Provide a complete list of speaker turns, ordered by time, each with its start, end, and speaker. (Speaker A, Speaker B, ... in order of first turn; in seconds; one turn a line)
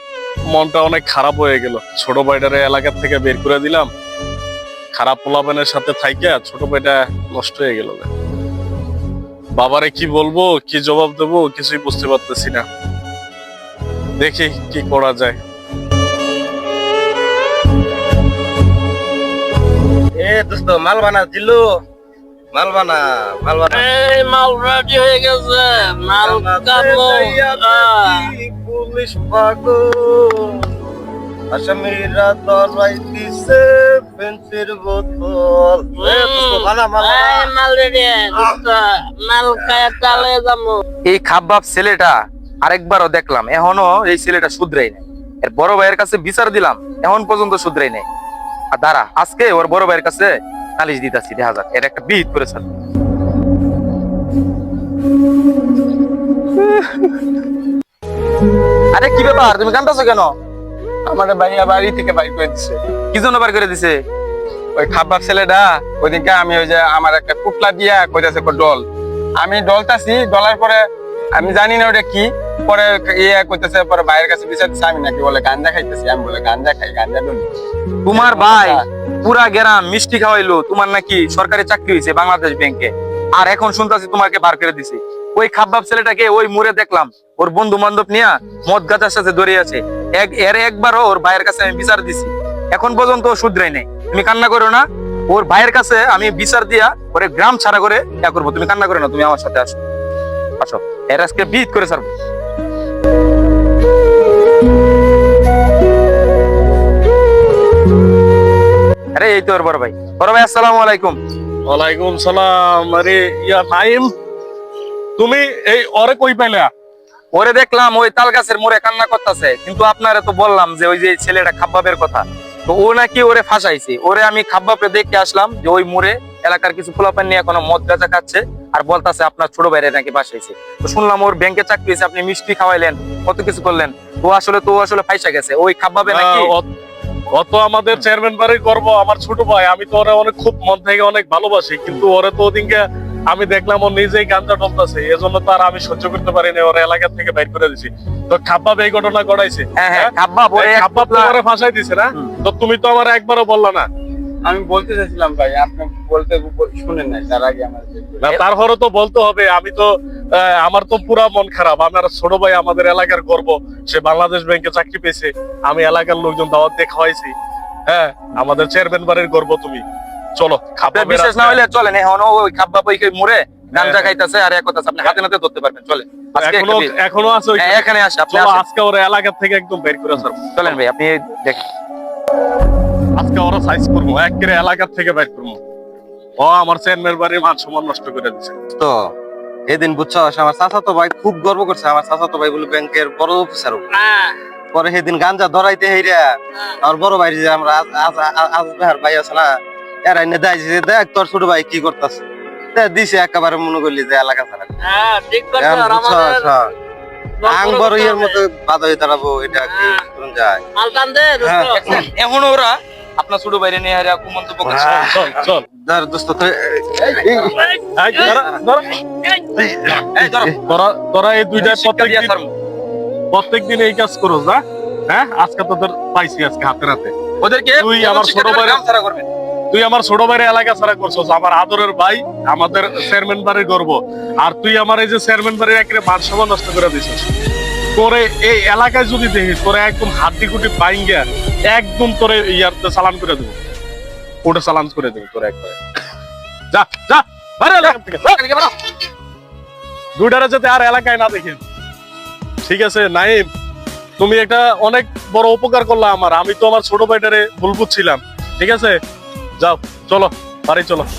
Speaker A: 0.5-3.9
Speaker A: 4.9-8.1
Speaker A: 9.6-12.7
Speaker A: 14.2-15.4
Speaker B: 20.2-21.7
Speaker B: 22.5-23.9
Speaker C: 23.7-28.3
Speaker B: 26.2-30.7
Speaker B: 31.5-37.5
Speaker C: 36.0-40.8
Speaker B: 39.8-40.2
Speaker D: 41.1-48.1
Speaker D: 48.7-52.7
Speaker D: 56.6-57.1
Speaker D: 58.9-60.3
Speaker E: 61.1-62.8
Speaker D: 63.1-64.0
Speaker E: 64.8-68.8
Speaker E: 69.4-70.8
Speaker E: 71.3-77.5
Speaker D: 78.1-99.8
Speaker E: 78.1-78.8
Speaker D: 100.6-102.1
Speaker D: 109.2-111.2
Speaker A: 111.7-114.1
Speaker A: 115.2-116.7
Speaker D: 117.3-136.5
Speaker A: 136.1-136.7
Speaker A: 137.3-153.9
Speaker D: 149.8-151.3
Speaker E: 154.4-158.2
Speaker A: 158.2-167.3
Speaker A: 167.9-169.8
Speaker A: 170.4-171.6
Speaker D: 170.8-176.9
Speaker A: 173.8-174.1
Speaker A: 176.4-180.8
Speaker D: 177.6-178.6
Speaker D: 180.6-181.7
Speaker A: 183.2-185.6
Speaker A: 186.4-188.6
Speaker B: 188.8-189.1
Speaker B: 189.7-193.9
Speaker C: 193.9-194.4
Speaker B: 194.7-196.3
Speaker B: 196.8-199.5
Speaker B: 200.1-204.7
Speaker C: 204.8-206.7
Speaker B: 205.6-206.7
Speaker C: 207.4-208.4
Speaker B: 207.4-210.6
Speaker C: 209.7-210.0
Speaker C: 210.8-211.8
Speaker B: 211.4-212.0
Speaker D: 211.8-215.2
Speaker A: 214.7-215.6
Speaker B: 214.7-215.2
Speaker B: 215.7-217.7
Speaker C: 217.3-218.4
Speaker A: 218.0-219.0
Speaker C: 219.2-219.5
Speaker B: 219.6-220.5
Speaker D: 220.2-220.6
Speaker A: 220.6-222.3
Speaker D: 221.6-222.5
Speaker A: 223.3-227.2
Speaker D: 227.4-229.3
Speaker A: 227.8-228.8
Speaker A: 229.7-237.3
Speaker A: 237.9-243.6
Speaker A: 244.4-245.8
Speaker A: 246.7-248.7
Speaker A: 250.2-251.6
Speaker A: 252.7-253.5
Speaker A: 254.2-259.0
Speaker A: 259.6-261.1